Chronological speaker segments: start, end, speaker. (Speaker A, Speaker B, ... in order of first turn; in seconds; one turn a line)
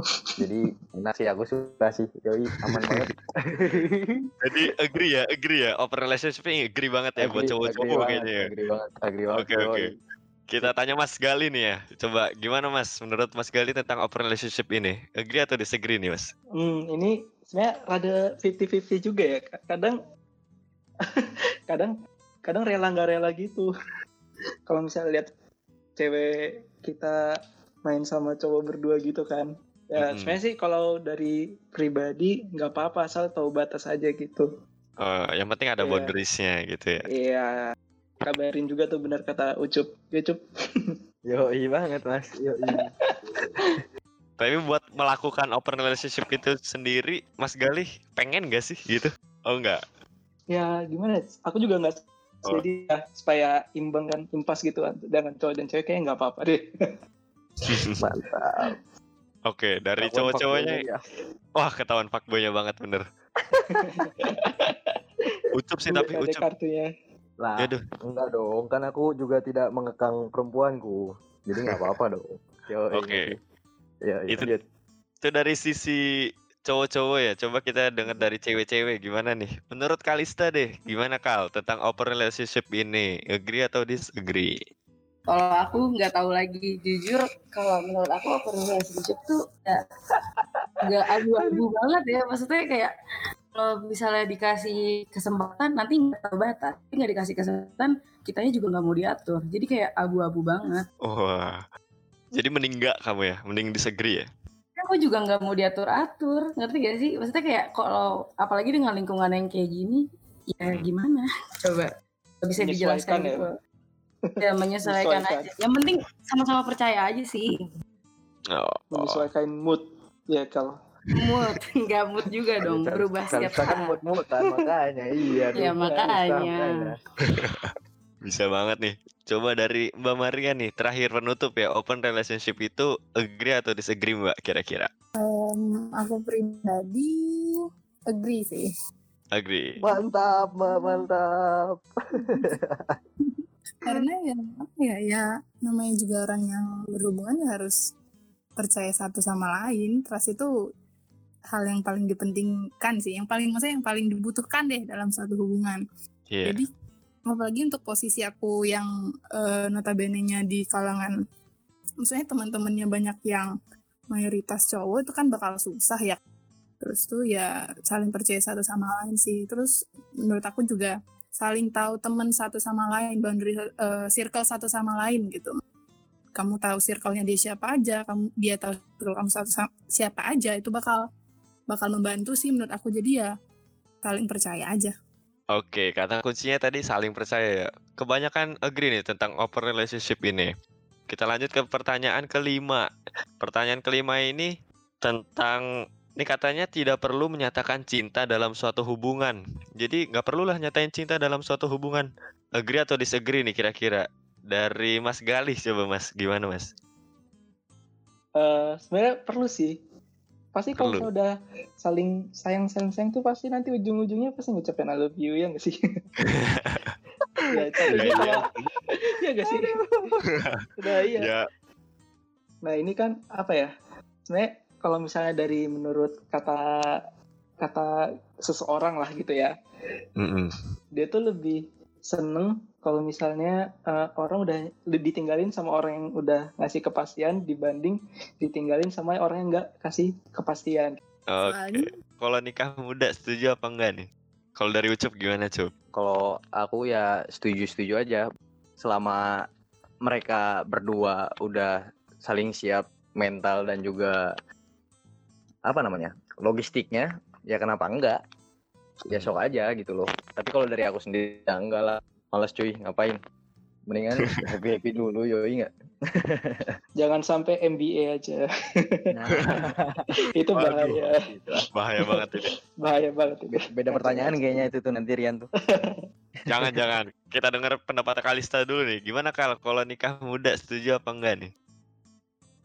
Speaker A: 0.2-0.5
Speaker B: 0.4-4.2
Speaker C: 4.4-8.5
Speaker B: 7.2-9.9
Speaker C: 9.3-9.9
Speaker C: 10.5-16.3
Speaker A: 16.6-20.0
Speaker A: 21.0-21.9
Speaker A: 22.5-23.7
Speaker A: 24.7-25.3
Speaker A: 26.0-26.3
Speaker A: 26.9-27.2
Speaker A: 27.9-34.5
Speaker C: 30.0-30.4
Speaker C: 35.0-37.0
Speaker A: 35.8-36.1
Speaker A: 37.0-37.6
Speaker A: 38.2-41.0
Speaker B: 41.3-42.9
Speaker A: 42.7-43.8
Speaker C: 44.4-49.8
Speaker A: 50.5-56.6
Speaker C: 57.7-58.0
Speaker B: 58.0-58.8
Speaker C: 59.5-60.8
Speaker B: 60.0-61.0
Speaker C: 61.6-63.0
Speaker B: 63.6-64.4
Speaker A: 63.7-66.9
Speaker C: 65.5-66.5
Speaker B: 67.4-73.4
Speaker C: 72.9-73.3
Speaker B: 74.0-74.6
Speaker C: 75.2-76.0
Speaker C: 76.7-84.5
Speaker D: 85.3-89.8
Speaker D: 90.8-92.9
Speaker A: 91.4-91.6
Speaker D: 93.6-100.8
Speaker C: 101.0-101.6
Speaker C: 102.3-104.3
Speaker D: 104.8-110.0
Speaker D: 110.5-111.9
Speaker D: 112.4-113.5
Speaker A: 112.6-113.5
Speaker A: 114.3-115.5
Speaker D: 114.4-117.6
Speaker C: 118.5-119.3
Speaker A: 118.9-120.7
Speaker D: 121.1-123.9
Speaker B: 122.6-127.0
Speaker A: 124.4-124.7
Speaker A: 125.3-126.1
Speaker D: 125.6-126.9
Speaker C: 127.3-127.7
Speaker C: 128.2-134.9
Speaker E: 135.2-137.6
Speaker E: 138.1-138.7
Speaker C: 139.4-139.7
Speaker B: 139.8-143.0
Speaker E: 140.8-141.0
Speaker E: 142.3-142.6
Speaker E: 143.2-147.9
Speaker E: 148.6-150.5
Speaker E: 151.5-155.8
Speaker C: 156.3-156.6
Speaker E: 156.4-156.7
Speaker E: 157.3-161.1
Speaker E: 162.0-163.5
Speaker E: 164.1-166.2
Speaker E: 166.8-175.5
Speaker E: 176.4-181.0
Speaker E: 181.7-183.3
Speaker E: 184.0-184.9
Speaker C: 185.5-190.5
Speaker C: 191.1-192.9
Speaker C: 193.4-195.7
Speaker C: 196.2-202.1
Speaker C: 202.6-206.7
Speaker A: 208.4-209.8
Speaker A: 210.5-215.8
Speaker C: 210.8-211.1
Speaker C: 216.2-216.9
Speaker A: 217.5-220.2
Speaker C: 217.9-218.3
Speaker B: 217.9-218.3
Speaker B: 219.5-220.2
Speaker C: 220.3-221.5
Speaker A: 220.8-221.3
Speaker A: 222.7-223.7
Speaker A: 224.3-226.6
Speaker A: 227.6-227.9
Speaker A: 228.5-229.5
Speaker C: 230.2-230.5
Speaker A: 231.0-241.0
Speaker C: 241.3-245.7
Speaker E: 241.4-241.9
Speaker B: 245.9-248.2
Speaker B: 248.8-249.2
Speaker B: 250.1-254.2
Speaker B: 255.7-258.2
Speaker B: 259.1-263.2
Speaker B: 263.9-266.7
Speaker A: 267.0-269.1
Speaker B: 269.1-270.1
Speaker A: 270.1-271.2
Speaker C: 270.6-271.0
Speaker B: 270.7-271.6
Speaker C: 271.7-272.5
Speaker A: 272.1-274.6
Speaker B: 273.5-275.5
Speaker A: 275.6-276.0
Speaker C: 276.5-281.5